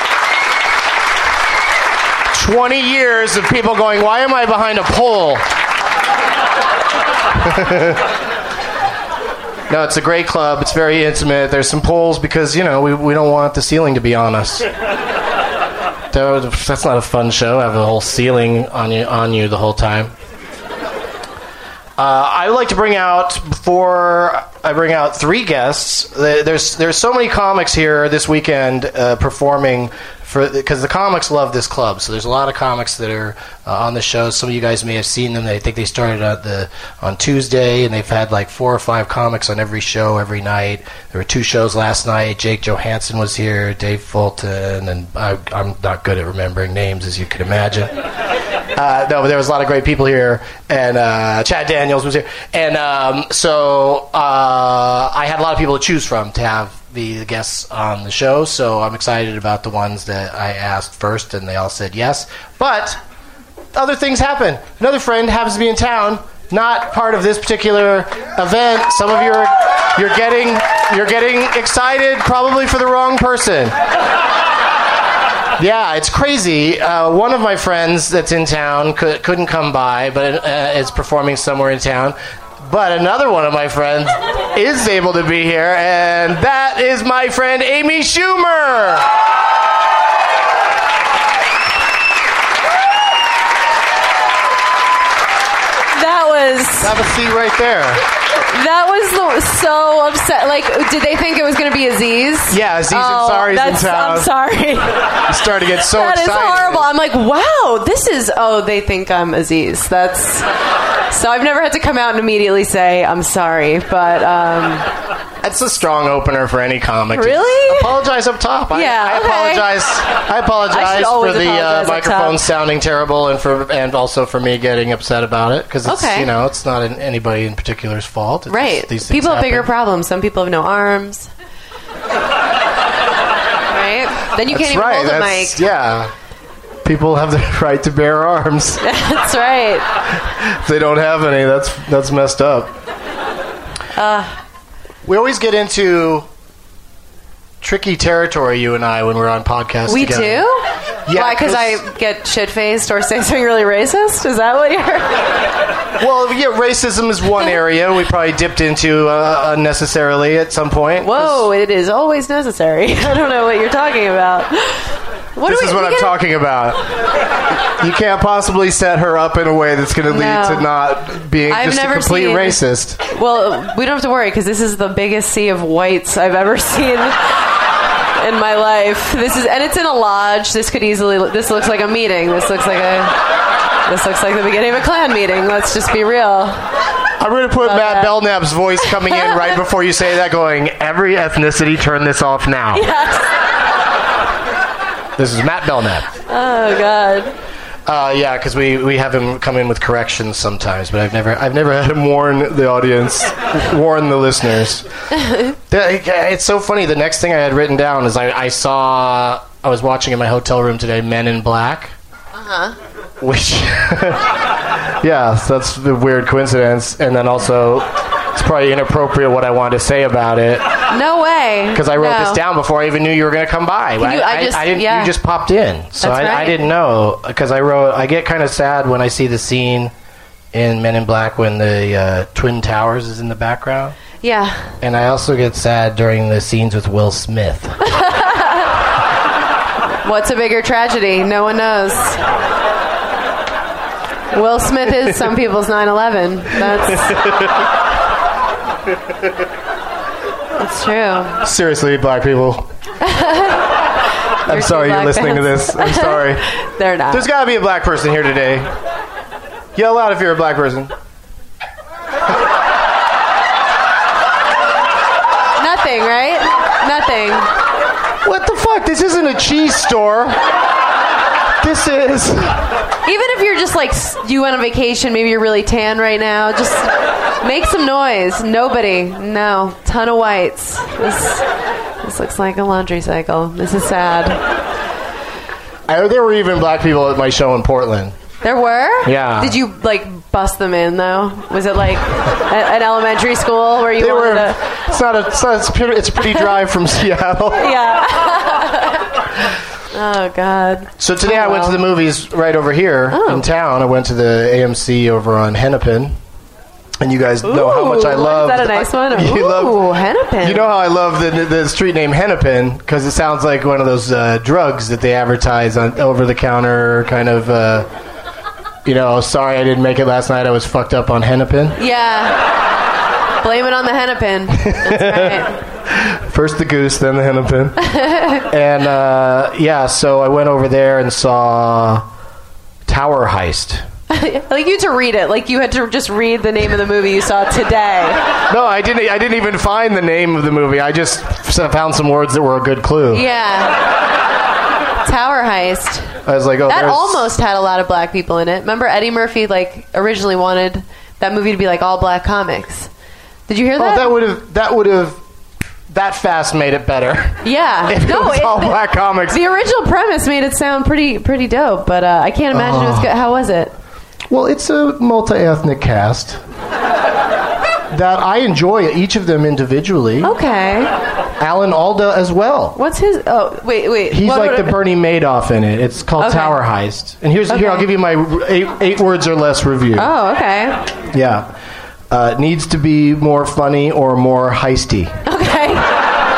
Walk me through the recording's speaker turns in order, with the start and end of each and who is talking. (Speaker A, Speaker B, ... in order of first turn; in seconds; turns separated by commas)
Speaker A: 2.3-5.5, Speaker A: 7.4-8.0, Speaker A: 9.7-14.7, Speaker A: 16.1-20.1, Speaker A: 22.0-48.0, Speaker A: 48.8-63.0, Speaker A: 63.7-73.8, Speaker A: 75.6-89.1, Speaker B: 95.9-96.9, Speaker A: 96.8-98.0, Speaker B: 98.5-105.2, Speaker A: 102.5-104.3, Speaker A: 105.2-106.9, Speaker B: 105.8-110.5, Speaker B: 111.1-114.9, Speaker A: 115.4-129.7, Speaker B: 117.1-118.0, Speaker B: 118.7-119.7, Speaker B: 120.7-122.4, Speaker B: 125.8-126.3, Speaker B: 128.5-131.3, Speaker B: 133.7-135.6, Speaker A: 134.5-136.1, Speaker A: 136.8-138.8, Speaker B: 138.8-139.9, Speaker A: 140.4-142.8, Speaker B: 143.9-144.4, Speaker A: 145.0-146.3, Speaker A: 147.6-150.5, Speaker B: 149.9-155.2, Speaker A: 151.1-151.8, Speaker A: 156.0-161.5, Speaker B: 161.0-166.2, Speaker A: 165.4-166.8, Speaker A: 167.8-173.0, Speaker B: 170.1-170.7, Speaker B: 171.5-177.3, Speaker B: 178.2-183.2, Speaker B: 183.9-186.6, Speaker A: 187.2-192.9, Speaker B: 187.6-188.2, Speaker B: 188.8-189.5, Speaker B: 192.7-193.3, Speaker A: 195.2-196.1, Speaker B: 196.3-197.3, Speaker A: 197.9-204.9, Speaker A: 205.5-211.9, Speaker B: 212.4-212.8, Speaker A: 213.2-220.8, Speaker B: 220.9-222.4, Speaker A: 221.7-229.9, Speaker B: 224.0-225.2, Speaker B: 226.0-226.6, Speaker A: 230.5-234.0, Speaker B: 234.2-234.7, Speaker A: 234.8-237.8, Speaker B: 237.9-238.6, Speaker B: 240.0-242.2, Speaker B: 244.3-247.2, Speaker A: 246.9-247.5, Speaker B: 250.6-251.4, Speaker A: 251.4-252.7, Speaker B: 253.0-253.7, Speaker B: 254.4-257.3, Speaker A: 254.5-256.5, Speaker A: 257.1-258.7, Speaker A: 259.8-260.9, Speaker B: 265.6-267.5, Speaker A: 268.2-270.4, Speaker A: 271.6-272.7, Speaker B: 273.1-281.5, Speaker B: 282.0-284.4, Speaker A: 285.9-288.1, Speaker B: 288.4-294.6, Speaker A: 289.0-289.6, Speaker A: 294.0-297.8, Speaker B: 297.6-299.1, Speaker B: 299.9-301.8, Speaker A: 301.0-306.2, Speaker B: 303.1-303.4, Speaker A: 307.0-309.8, Speaker B: 307.4-310.7, Speaker A: 310.4-317.9, Speaker A: 318.9-321.8, Speaker B: 321.8-322.5, Speaker B: 323.4-325.6, Speaker A: 324.6-332.1, Speaker B: 327.9-328.4, Speaker A: 332.9-333.9, Speaker B: 334.1-338.3, Speaker A: 338.5-343.2, Speaker B: 343.1-343.9, Speaker B: 345.0-346.1, Speaker A: 346.2-347.3, Speaker B: 346.7-352.9, Speaker B: 353.5-354.2, Speaker A: 353.8-355.2, Speaker A: 355.9-359.4, Speaker B: 357.4-363.7, Speaker A: 362.5-363.1, Speaker A: 364.3-366.4, Speaker A: 367.9-370.3, Speaker B: 370.2-370.9, Speaker A: 371.4-372.8, Speaker B: 372.8-374.8, Speaker A: 374.1-380.1, Speaker B: 376.2-376.6, Speaker B: 377.5-377.9, Speaker B: 380.0-380.9, Speaker A: 381.1-381.5, Speaker A: 382.1-385.1, Speaker B: 385.2-385.9